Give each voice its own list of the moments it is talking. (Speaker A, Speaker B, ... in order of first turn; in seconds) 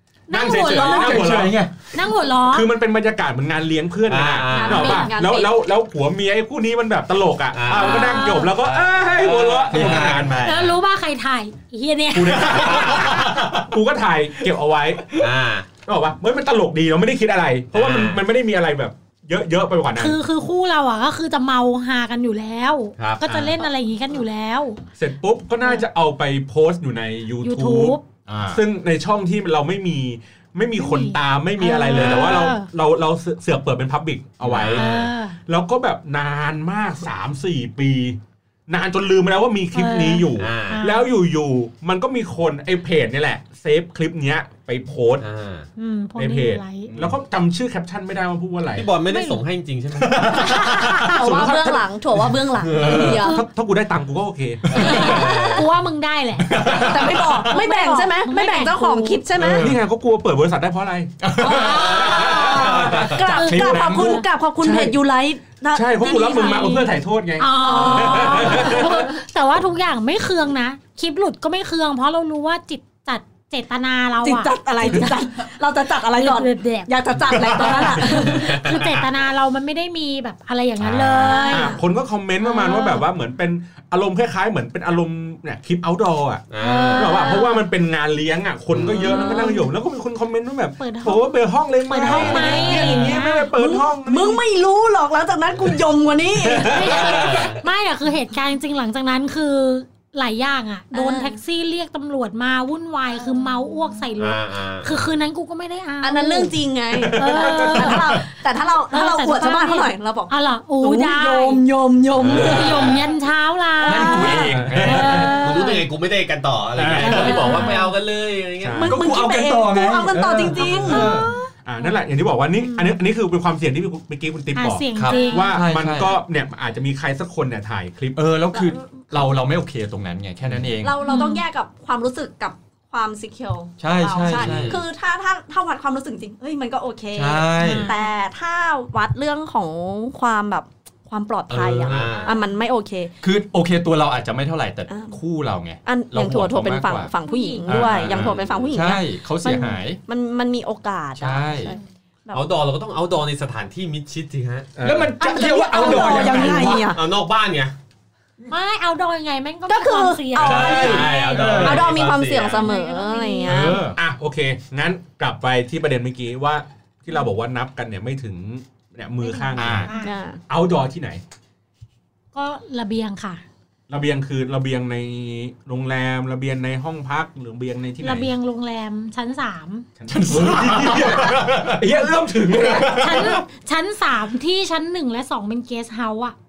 Speaker A: 0.3-1.3, 1.9-2.7, 7.7-8.6, 10.4-13.0, 19.9-24.8, 27.4-28.0, 30.8-32.7, 34.7-35.4, 39.7-41.1, 45.8-46.9, 49.1-49.4, 50.4-51.2, 53.1-53.4, 54.8-56.8, 57.5-59.2, 61.4-62.7, 63.2-64.2, 66.0-75.2, 76.0-76.9, 77.6-81.8, 82.4-83.0, 87.0-87.4, 89.0-89.7, 90.8-91.3, 91.8-93.5, 96.7-106.6, 107.1-108.3, 108.9-111.6, 112.3-115.8, 117.0-117.9, 120.7-121.9, 122.6-122.9, 124.5-125.7, 131.0-131.4, 137.6-138.1, 142.1-142.5, 147.2-147.9, 158.5-161.7, 162.4-163.8, 169.2-170.2, 172.3-173.4, 178.0-179.9, 182.9-186.3
Speaker B: 0.3-1.6, 2.5-10.4, 12.1-15.1, 15.9-20.2, 23.3-23.5, 25.0-28.0, 28.5-34.9, 35.5-45.2, 46.2-48.9, 50.8-51.9, 52.8-54.9, 59.6-61.1, 61.9-65.0, 65.7-68.9, 80.8-86.4, 87.0-94.4, 107.0-108.2, 114.5-115.3, 116.8-117.4, 118.6-119.0, 121.7-128.2, 154.8-155.1, 163.9-169.9, 170.5-171.2, 173.9-178.3, 180.0-183.0
Speaker C: 0.6-1.7, 9.7-10.8, 12.7-13.7, 28.3-28.6, 34.4-34.7, 46.9-47.1, 50.0-51.1, 52.8-53.1, 54.7-55.0, 56.4-57.6, 59.3-59.8, 61.2-64.2, 77.4-78.0, 113.8-115.3, 116.8-117.5, 118.8-121.3, 124.9-126.2, 128.2-131.0, 133.8-134.8, 137.1-137.9, 141.5-142.1, 143.2-147.1, 147.7-150.0, 151.2-151.8, 154.8-157.0, 160.5-162.0, 163.4-164.0, 169.6-169.9, 180.1-183.5
Speaker D: 4.1-5.1, 7.5-10.1, 12.6-13.3, 15.2-15.7, 17.7-18.2, 23.0-23.5, 31.9-32.5, 34.5-35.1, 40.4-40.8, 45.2-45.7, 48.8-50.4, 52.6-53.2, 54.7-55.7, 61.6-63.1, 78.1-79.0, 86.5-87.3, 88.7-89.2, 96.8-97.6, 104.2-105.0, 112.2-113.0, 115.3-119.0, 134.2-134.8, 141.8-142.4, 148.0-148.7, 152.3-154.8, 156.3-157.7, 160.4-162.7
Speaker E: 4.5-5.5, 50.9-53.4, 54.8-55.5, 56.7-59.7, 61.4-66.6, 67.6-69.2, 74.2-78.8, 81.2-81.8, 86.6-87.6, 92.1-93.0, 93.5-97.5, 100.9-101.4, 106.0-113.1, 113.9-114.4, 118.8-121.4, 128.6-128.8, 130.8-143.1, 144.9-145.2, 145.8-152.5, 155.2-157.0, 159.7-163.9, 170.0-170.4